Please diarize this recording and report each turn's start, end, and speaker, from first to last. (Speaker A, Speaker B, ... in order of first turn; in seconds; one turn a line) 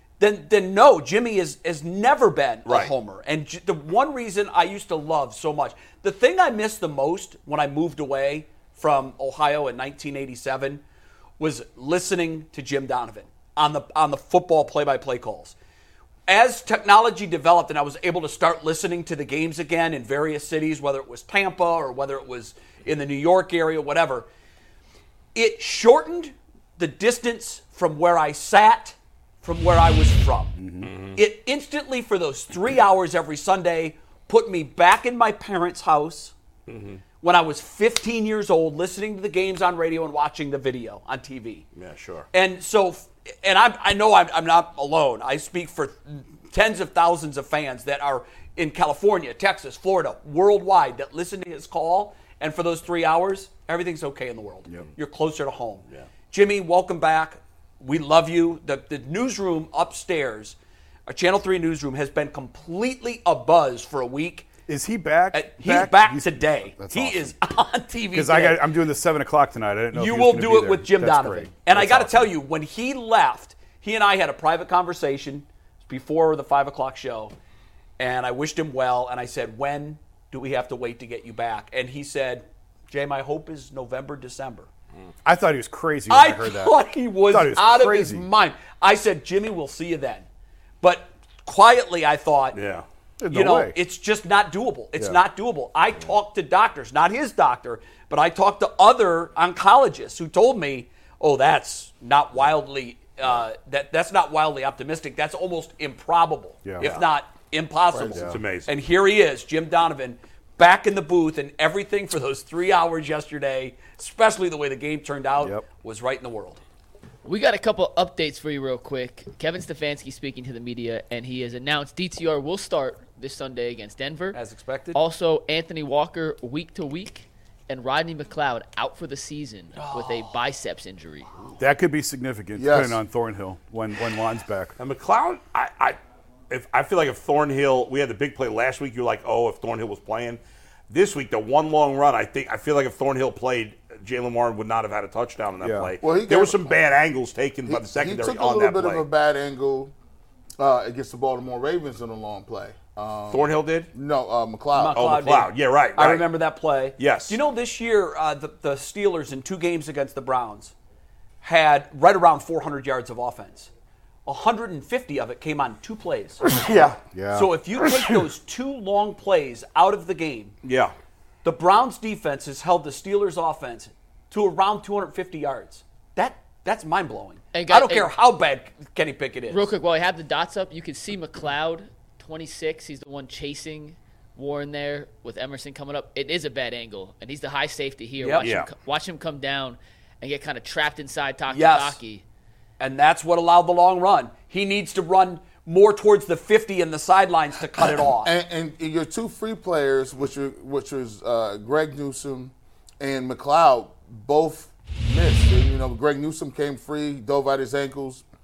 Speaker A: 0.2-10.8
Speaker B: 2.6-2.9
Speaker A: 11.4-15.6
Speaker A: 16.3-24.3
Speaker A: 25.4-30.6
Speaker C: 30.6-30.9
Speaker B: 30.8-31.2
Speaker A: 31.1-36.3
Speaker B: 36.7-37.0
Speaker A: 37.2-41.6
Speaker B: 41.8-42.3
Speaker A: 42.3-60.6
Speaker A: 61.1-64.5
Speaker C: 64.7-67.3
Speaker A: 65.3-68.6
Speaker C: 68.1-72.3
Speaker A: 69.9-77.3
Speaker A: 78.0-84.7
Speaker C: 85.2-88.3
Speaker A: 86.1-90.3
Speaker A: 90.8-92.6
Speaker B: 92.5-92.8
Speaker C: 93.2-93.8
Speaker A: 93.3-116.6
Speaker C: 106.6-106.9
Speaker D: 107.9-108.3
Speaker C: 108.1-108.4
Speaker B: 108.3-108.7
Speaker E: 117.2-124.4
Speaker A: 124.3-125.0
Speaker E: 124.9-131.3
Speaker A: 129.8-130.4
Speaker C: 131.6-134.7
Speaker D: 132.6-133.0
Speaker B: 134.8-136.0
Speaker B: 136.5-149.1
Speaker C: 145.6-145.9
Speaker D: 146.0-146.8
Speaker D: 147.7-149.9
Speaker D: 150.6-155.2
Speaker B: 153.3-153.9
Speaker A: 154.7-160.7
Speaker B: 154.9-156.3
Speaker B: 157.0-157.4
Speaker A: 161.4-163.7
Speaker A: 164.3-166.4
Speaker C: 167.0-167.5
Speaker A: 167.3-170.6
Speaker B: 170.6-170.9
Speaker A: 171.4-179.7
Speaker E: 177.5-178.1
Speaker E: 179.5-192.2
Speaker A: 188.2-188.5
Speaker B: 188.4-188.7
Speaker A: 191.5-192.0
Speaker A: 192.8-198.3
Speaker D: 198.0-208.2